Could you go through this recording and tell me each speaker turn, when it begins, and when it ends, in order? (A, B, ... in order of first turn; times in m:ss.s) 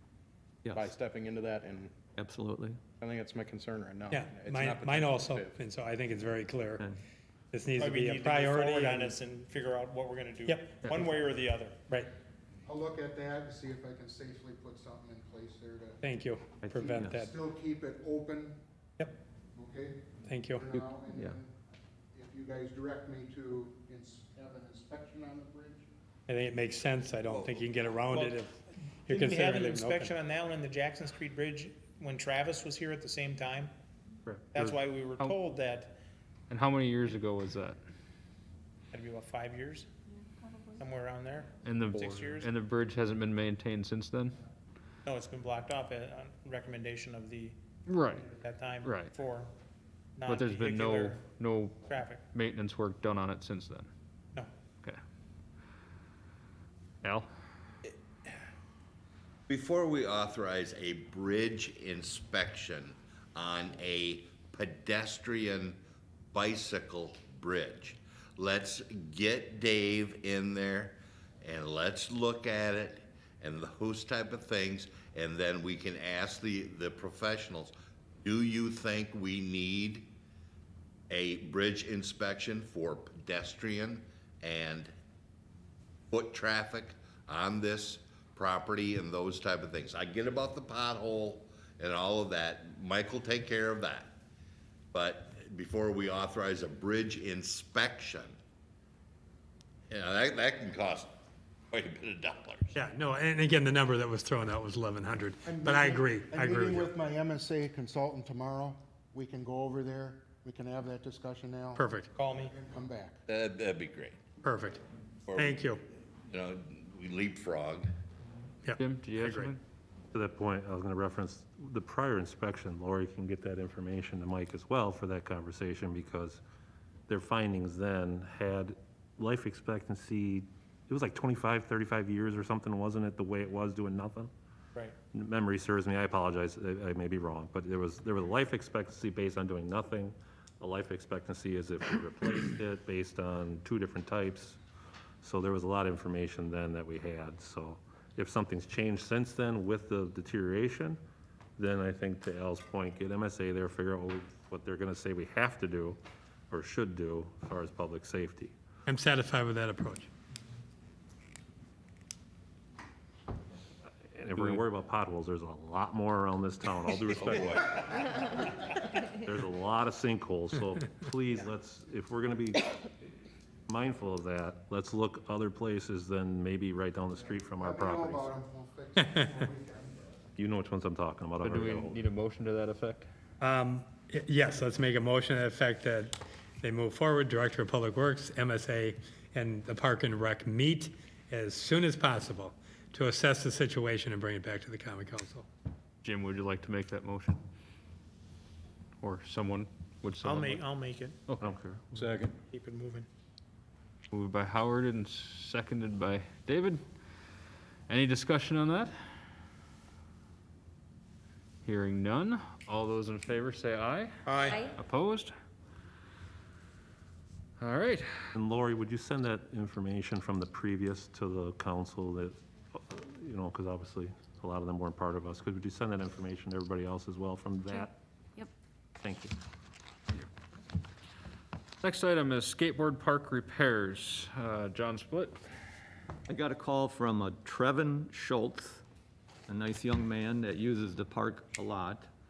0:00.6-0:00.9 A
0:00.7-0:02.0 B
0:02.2-0:02.8 A
0:03.0-0:05.6 B
0:04.1-0:06.9 C
0:07.5-0:09.2 C
0:07.8-0:11.9 D
0:12.6-0:16.0 E
0:16.0-0:17.3 C
0:16.6-0:17.2 A
0:16.9-0:18.6 E
0:19.5-0:21.5 E
0:20.2-0:20.7 C
0:20.8-0:21.4 A
0:22.1-0:25.9 E
0:26.3-0:30.1 C
0:28.1-0:28.4 D
0:29.1-0:33.7 D
0:34.3-0:35.4 F
0:34.5-0:36.0 D
0:36.5-0:37.8 F
0:38.9-0:39.9 D
0:40.8-0:42.5 D
0:41.6-0:44.4 F
0:45.0-0:47.6 D
0:47.9-0:48.3 F
0:48.1-0:49.5 D
0:48.8-0:49.1 F
0:50.2-0:51.2 D
0:50.3-0:53.9 F
0:51.9-0:52.2 D
0:57.0-0:57.3 F
0:59.5-1:05.8 G
1:06.3-1:20.1 G
1:21.1-1:24.9 G
1:26.1-1:34.1 G
1:34.9-1:38.4 G
1:39.9-1:41.1 G
1:41.7-1:42.7 G
1:42.7-1:46.9 C
1:45.4-1:53.2 E
1:51.8-1:52.1 C
1:52.1-1:52.5 D
1:53.3-1:54.2 G
1:54.4-1:54.8 C
1:55.3-1:55.7 G
1:55.4-1:55.8 C
1:56.3-1:57.9 G
1:58.6-1:59.5 C
1:58.8-1:59.6 F
2:00.1-2:06.4 H
2:07.1-2:14.3 H
2:15.1-2:24.6 H
2:25.2-2:31.0 H
2:31.6-2:36.0 H
2:36.5-2:38.5 H
2:38.9-2:40.1 C
2:44.2-2:48.2 H
2:44.4-2:44.6 F
2:47.1-2:48.1 G
2:49.1-2:52.6 H
2:53.7-2:58.3 H
2:57.1-3:00.1 E
3:00.4-3:02.0 H
3:01.4-3:03.1 F
3:03.4-3:15.5 C
3:16.0-3:17.4 F
3:19.0-3:20.6 F
3:20.2-3:21.2 D
3:21.4-3:21.8 H
3:22.0-3:22.4 B
3:22.5-3:23.1 D
3:24.1-3:26.8 F
3:27.9-3:28.9 F
3:31.6-3:34.2 F
3:34.2-3:34.7 D
3:34.8-3:35.3 F
3:37.6-3:38.2 F
3:38.3-3:48.0 H
3:49.0-3:49.3 H
3:51.8-3:55.4 F
3:56.3-3:58.8 A
3:59.5-4:02.1 A